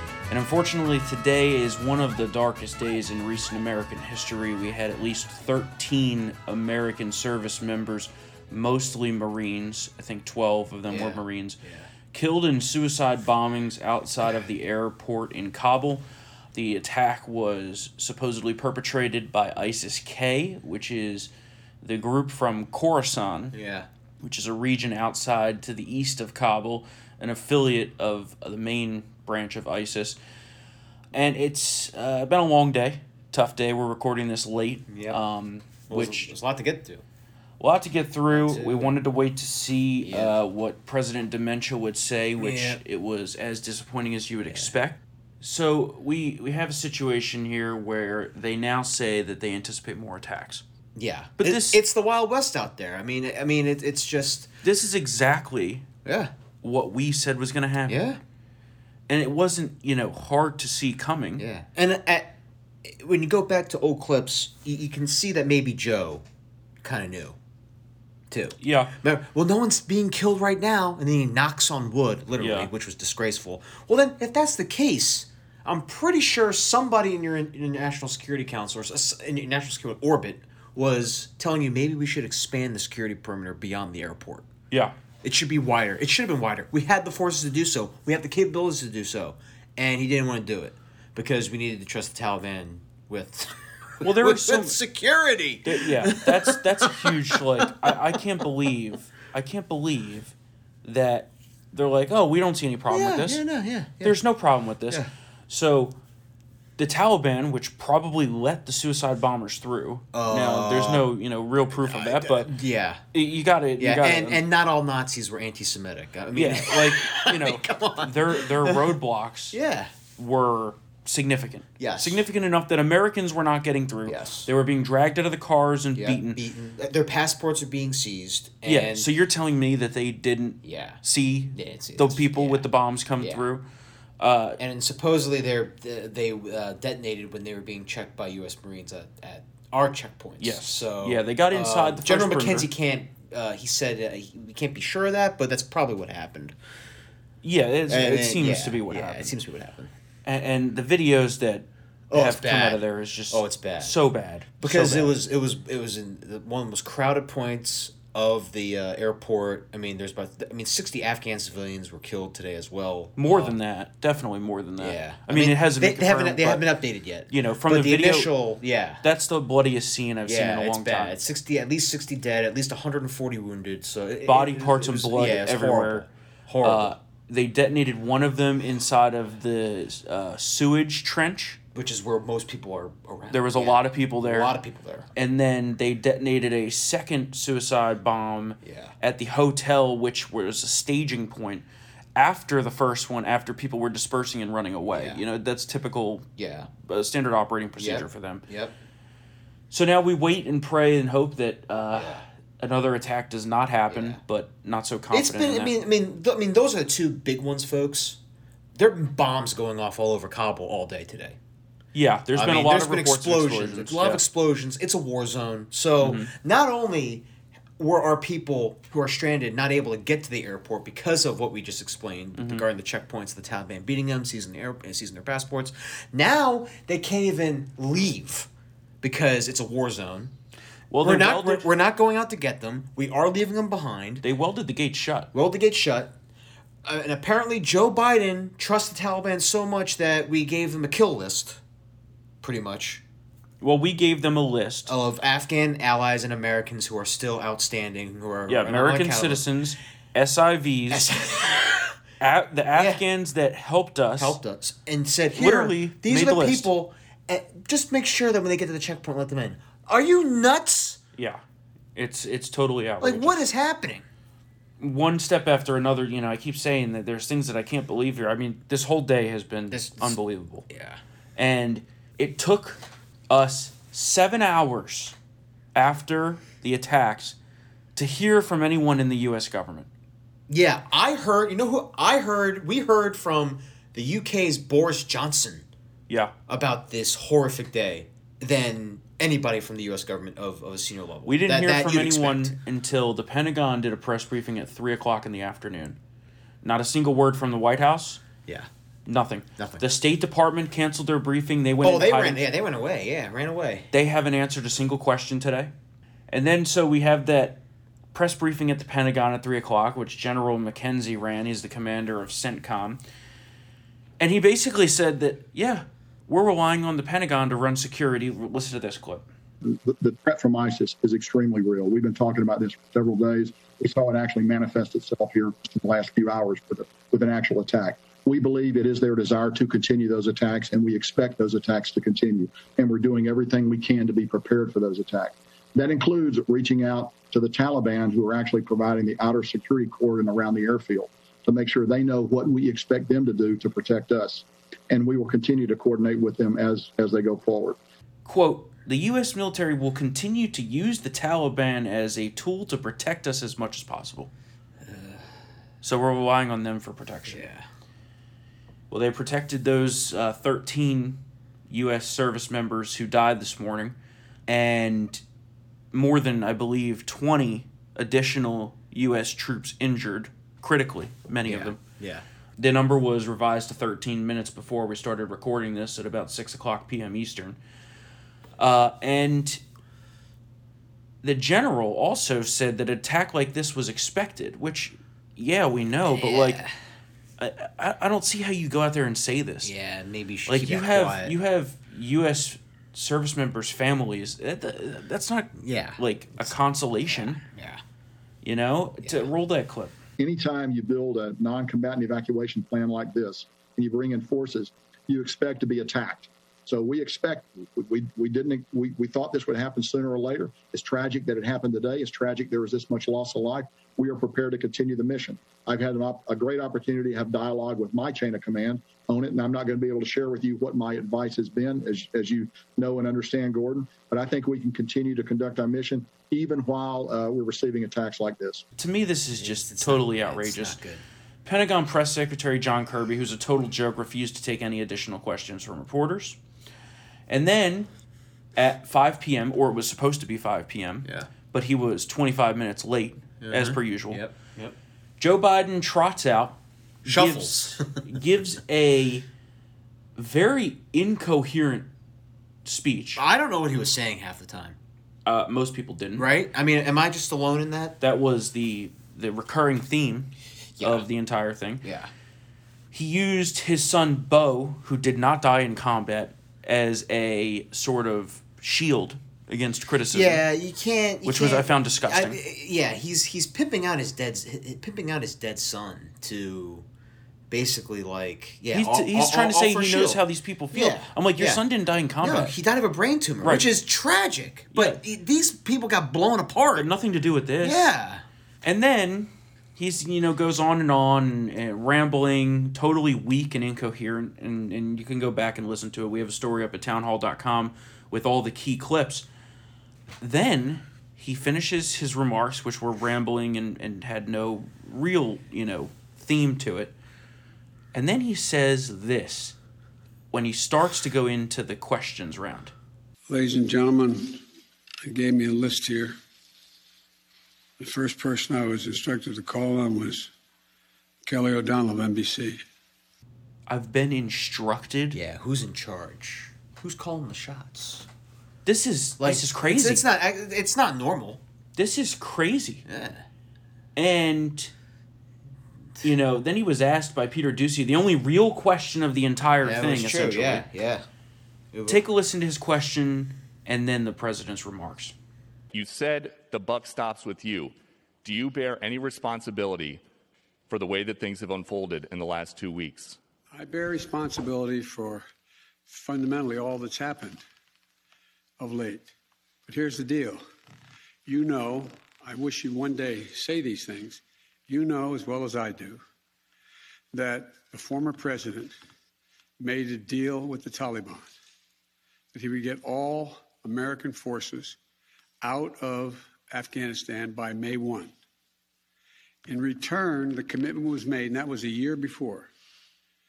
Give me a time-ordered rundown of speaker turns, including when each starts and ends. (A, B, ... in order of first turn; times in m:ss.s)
0:00.3-0:11.6 A
0:10.9-0:11.9 B
0:12.1-0:21.3 A
0:21.8-0:23.5 A
0:23.5-0:23.9 B
0:24.2-0:30.2 A
0:31.1-0:36.3 A
0:34.9-0:35.2 B
0:35.9-0:37.0 B
0:37.6-0:50.6 A
0:38.3-0:39.0 B
0:40.0-0:40.4 B
0:42.4-0:42.8 B
0:51.0-0:54.5 B
0:51.4-0:51.8 A
0:54.6-0:55.9 A
0:56.0-0:56.3 B
0:56.6-0:58.0 A
0:57.9-0:58.2 B
0:59.1-1:01.4 A
1:01.4-1:06.2 B
1:06.8-1:07.4 B
1:08.3-1:24.5 B
1:08.6-1:08.9 A
1:12.4-1:12.7 A
1:25.2-1:38.2 B
1:34.0-1:34.8 A
1:35.6-1:43.4 A
1:42.9-1:44.2 B
1:44.0-1:46.0 A
1:46.8-1:52.5 A
1:50.1-1:51.1 B
1:51.7-1:53.0 B
1:53.1-1:54.4 A
1:53.8-1:58.9 B
1:56.3-1:59.6 A
1:59.5-1:59.9 B
2:00.2-2:06.4 A
2:01.8-2:02.2 B
2:04.1-2:04.5 B
2:05.9-2:09.1 B
2:08.6-2:13.6 A
2:10.6-2:11.0 B
2:11.5-2:12.7 B
2:14.2-2:14.6 A
2:14.6-2:26.5 B
2:20.4-2:22.7 A
2:27.4-2:29.3 A
2:27.9-2:29.9 B
2:30.2-2:35.2 A
2:32.1-2:33.9 B
2:34.6-2:43.5 B
2:43.2-2:46.6 A
2:44.8-2:49.0 B
2:47.3-2:48.3 A
2:49.0-2:51.2 A
2:50.2-2:56.9 B
2:54.2-2:56.0 A
2:56.6-3:01.6 A
3:01.7-3:05.1 B
3:03.3-3:04.5 A
3:05.1-3:11.6 A
3:08.6-3:08.9 B
3:12.2-3:16.2 A
3:14.9-3:15.2 B
3:16.4-3:16.7 B
3:16.8-3:18.4 A
3:17.8-3:18.7 B
3:19.7-3:25.8 A
3:21.9-3:22.2 B
3:23.9-3:24.2 B
3:25.1-3:28.2 B
3:28.8-3:31.4 B
3:31.9-3:34.2 A
3:32.3-3:37.2 B
3:36.0-3:36.3 A
3:37.8-3:48.5 B
3:42.4-3:42.6 A
3:49.0-3:50.3 B
3:50.9-3:51.7 A
3:51.0-3:54.2 B
3:54.2-3:55.3 A
3:55.3-3:56.1 B
3:56.8-4:01.6 B
4:02.4-4:03.0 B
4:03.6-4:04.9 A
4:04.9-4:09.4 B
4:08.5-4:11.1 A
4:10.9-4:12.0 B
4:12.2-4:14.4 A
4:12.7-4:13.0 B
4:14.2-4:21.0 B
4:15.3-4:16.7 A
4:21.9-4:23.4 A
4:23.0-4:24.0 B
4:24.8-4:30.7 A
4:29.7-4:30.1 B
4:30.7-4:31.0 B
4:31.4-4:35.1 A
4:35.7-4:37.4 A
4:38.0-4:39.9 A
4:40.5-4:45.7 B
4:46.5-4:52.5 B
4:51.2-4:56.0 A
4:56.6-4:58.2 A
4:59.0-5:02.4 A
4:59.6-4:59.8 B
5:01.8-5:03.9 B
5:03.9-5:05.7 A
5:06.3-5:07.6 A
5:08.1-5:13.0 A
5:14.2-5:19.2 A
5:19.6-5:47.8 C
5:48.2-5:54.3 A
5:54.8-5:55.3 B
5:55.8-5:57.4 A
5:57.3-5:57.6 B
5:58.9-6:04.0 A
6:04.5-6:05.2 A
6:05.9-6:11.8 A
6:11.4-6:12.2 B
6:12.6-6:17.6 A
6:18.6-6:19.6 A
6:21.2-6:26.6 A
6:26.1-6:26.7 B
6:27.4-6:29.7 A
6:29.6-6:31.3 B
6:30.5-6:37.4 A
6:35.6-6:36.5 B
6:37.1-6:37.8 B
6:38.4-6:39.9 A
6:40.2-7:08.6 C
7:08.8-7:10.8 A
7:09.4-7:11.0 B
7:11.4-7:16.4 A
7:17.3-7:17.9 A
7:18.5-7:24.2 A
7:23.4-7:24.7 B
7:25.2-7:29.2 A
7:27.0-7:28.0 B
7:30.2-7:31.9 A
7:32.6-7:33.2 A
7:33.2-7:34.8 B
7:35.2-7:36.2 A
7:36.2-7:38.0 B
7:38.0-7:41.8 A
7:40.8-7:41.1 B
7:41.8-7:42.1 B
7:42.9-7:50.4 A
7:50.1-7:56.8 B
7:51.2-7:52.4 A
7:57.5-8:00.2 B
7:58.7-8:02.5 A
8:00.7-8:01.6 B
8:02.2-8:06.9 B
8:03.4-8:03.7 A
8:04.7-8:05.0 A
8:06.8-8:07.8 A
8:07.6-8:08.2 B
8:08.6-8:19.2 A
8:20.2-8:26.9 A
8:27.9-8:29.6 A
8:30.3-8:32.7 A
8:33.3-8:34.4 D
8:35.0-8:36.2 D
8:37.8-8:40.3 D
8:41.2-8:42.6 D
8:43.7-8:45.2 A
8:45.1-8:48.0 B
8:48.6-8:50.0 A
8:49.2-8:51.4 B
8:51.8-8:52.8 A
8:52.8-8:53.2 B
8:54.0-8:54.7 A
8:56.0-9:00.6 A
8:59.6-9:01.0 B
9:01.7-9:02.0 B
9:01.9-9:05.1 A
9:05.7-9:10.0 E
9:10.7-9:13.2 E
9:13.5-9:15.2 D
9:15.9-9:17.4 D
9:18.6-9:19.1 D
9:19.6-9:20.4 D
9:21.2-9:26.0 D
9:27.1-9:28.7 D
9:29.6-9:31.3 D
9:32.3-9:34.8 D
9:35.4-9:38.1 D
9:39.4-9:42.5 D